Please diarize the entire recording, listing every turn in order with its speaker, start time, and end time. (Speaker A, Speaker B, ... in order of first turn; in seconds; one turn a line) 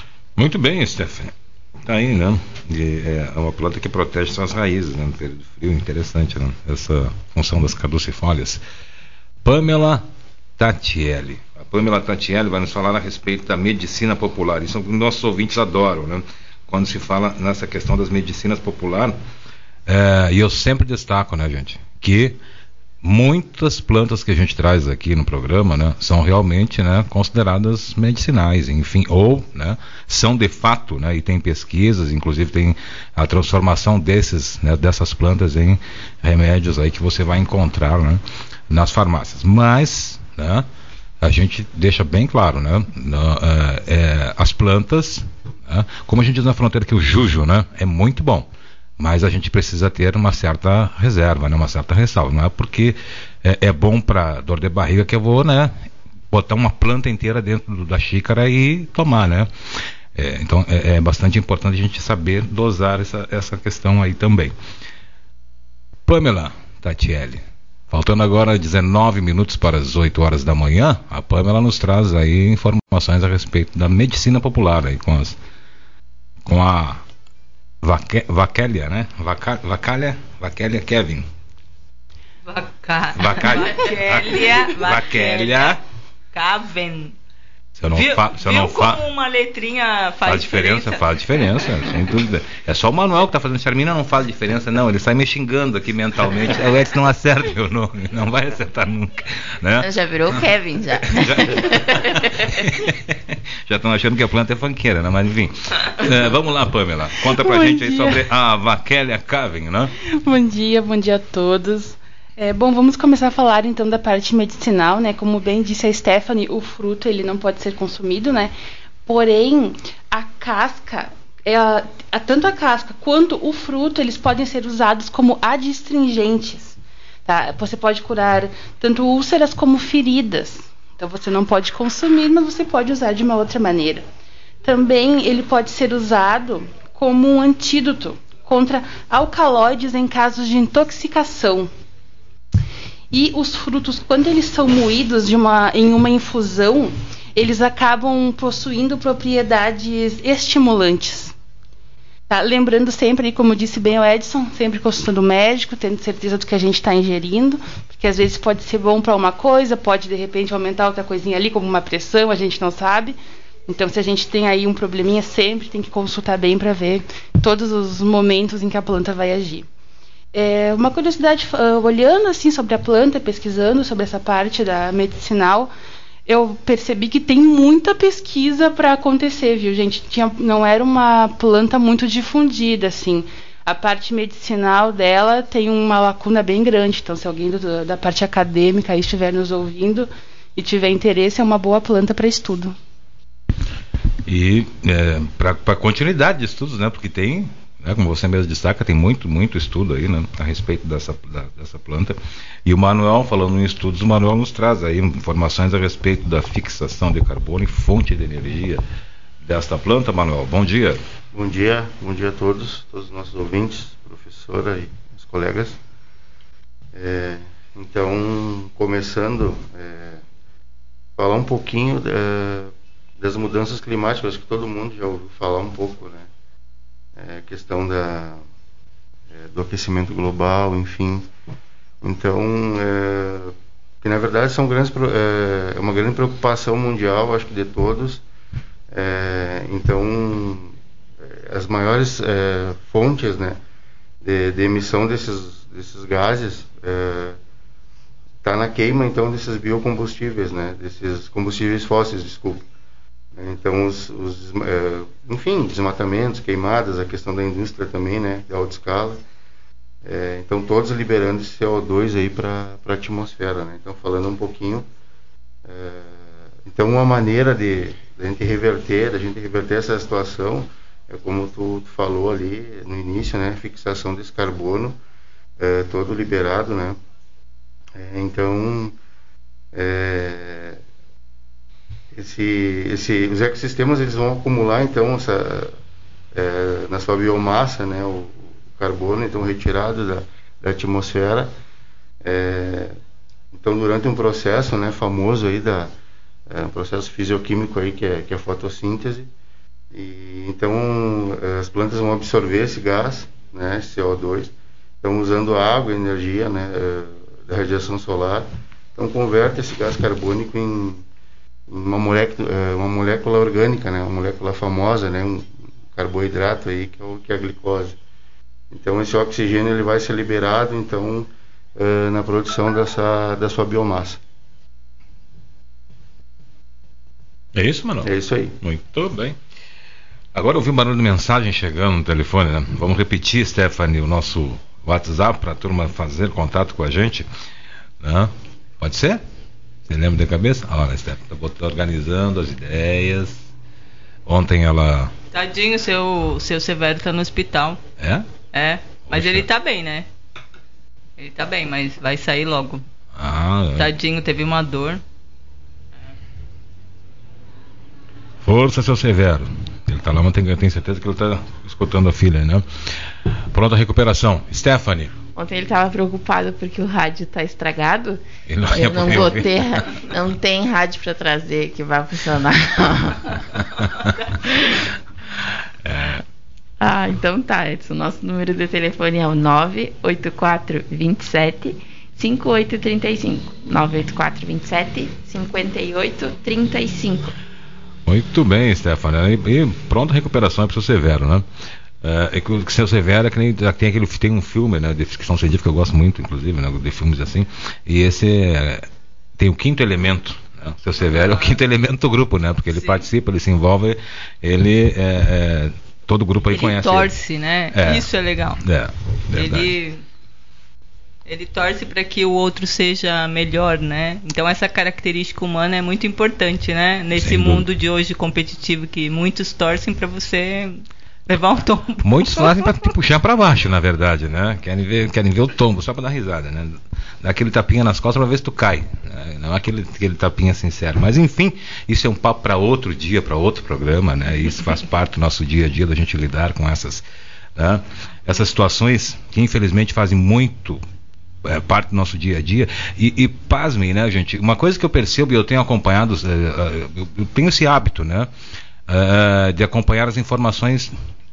Speaker A: 0.4-1.3
Speaker A: 1.9-8.6
Speaker A: 9.4-10.0
Speaker A: 10.6-19.2
Speaker A: 19.9-22.4
Speaker A: 23.0-40.7
Speaker A: 41.2-48.5
Speaker A: 49.0-55.7
Speaker A: 56.3-59.5
Speaker A: 60.1-64.5
Speaker A: 66.1-75.4
Speaker A: 76.5-77.0
Speaker A: 77.8-81.2
Speaker B: 82.5-85.8
Speaker A: 83.2-85.8
Speaker B: 86.3-87.1
Speaker A: 87.8-89.0
Speaker B: 87.9-91.1
Speaker A: 90.2-99.9
Speaker C: 99.8-102.6
Speaker A: 101.1-109.9
Speaker D: 107.3-108.2
Speaker D: 110.1-118.5
Speaker D: 119.0-126.8
Speaker D: 127.2-134.1
Speaker D: 134.6-141.7
Speaker D: 143.1-151.3
Speaker D: 152.3-169.7
Speaker D: 170.3-175.7
Speaker D: 176.2-192.8
Speaker A: 194.2-208.8
Speaker A: 209.4-211.0
Speaker E: 211.3-215.8
Speaker E: 216.9-220.2
Speaker E: 221.2-226.3
Speaker E: 227.2-228.4
Speaker E: 229.3-231.3
Speaker E: 232.0-238.2
Speaker E: 238.9-243.6
Speaker E: 244.2-247.4
Speaker E: 248.4-252.7
Speaker E: 253.3-259.2
Speaker E: 260.0-264.9
Speaker E: 265.6-275.0
Speaker E: 275.6-277.0
Speaker E: 277.9-279.0
Speaker E: 279.7-280.8
Speaker E: 282.1-285.8
Speaker E: 286.3-291.5
Speaker E: 292.2-293.0
Speaker E: 293.5-295.9
Speaker E: 296.5-299.3
Speaker E: 299.9-311.1
Speaker E: 311.7-318.0
Speaker E: 318.7-324.2
Speaker A: 327.6-329.4
Speaker E: 328.0-328.6
Speaker A: 330.3-337.3
Speaker A: 338.0-339.2
Speaker A: 339.9-343.4
Speaker A: 344.2-345.1
Speaker B: 345.3-347.8
Speaker A: 348.0-348.3
Speaker B: 348.5-350.1
Speaker A: 349.1-349.4
Speaker B: 351.2-352.8
Speaker A: 353.1-353.9
Speaker B: 353.8-355.0
Speaker A: 358.4-362.6
Speaker A: 363.5-365.1
Speaker C: 365.4-373.4
Speaker A: 368.5-369.9
Speaker A: 373.8-374.1
Speaker A: 375.8-376.2
Speaker C: 376.8-387.4
Speaker A: 388.1-391.4
Speaker A: 392.0-398.9
Speaker A: 399.4-407.1
Speaker B: 401.1-401.6
Speaker B: 402.7-403.0
Speaker B: 406.5-408.6
Speaker A: 407.7-408.1
Speaker A: 408.6-409.7
Speaker B: 409.3-410.0
Speaker B: 411.3-422.8
Speaker A: 417.2-417.6
Speaker A: 422.0-437.1
Speaker A: 437.6-440.8
Speaker A: 441.4-448.3
Speaker A: 448.9-450.9